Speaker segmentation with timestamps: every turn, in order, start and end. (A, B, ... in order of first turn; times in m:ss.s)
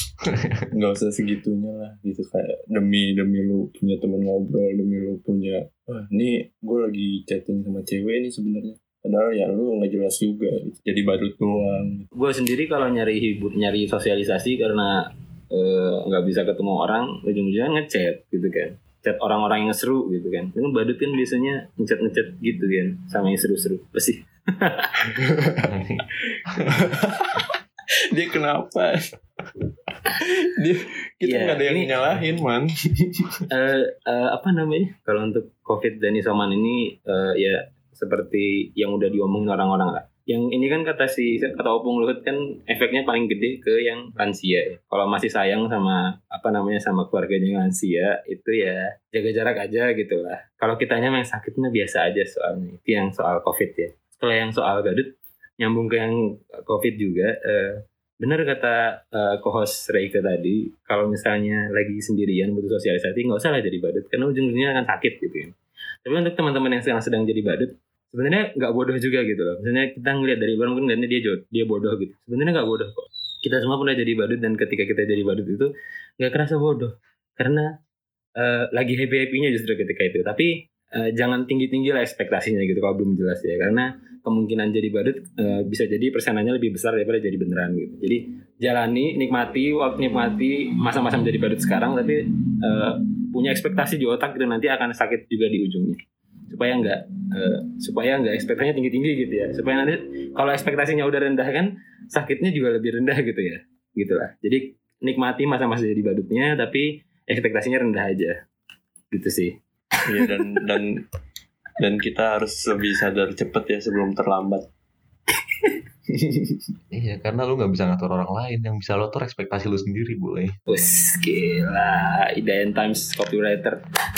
0:00.3-0:00.6 A
0:00.7-0:12.0 B
0:12.1-0:25.1 C
0:25.2-0:25.7 B
0:25.7-0:26.0 A
0:26.6-0:27.5 B
0:28.1-0:29.0 B
0:30.2-0:33.3 B
0:31.2-0:32.0 C
0:33.5-1:05.5 C
1:06.0-1:17.7 C
1:18.4-1:48.4 C
1:49.1-1:49.5 C
1:50.0-1:51.0 B
1:51.8-1:54.6 B
1:56.1-1:56.6 B
1:56.9-2:00.5 A
2:00.7-2:03.8 C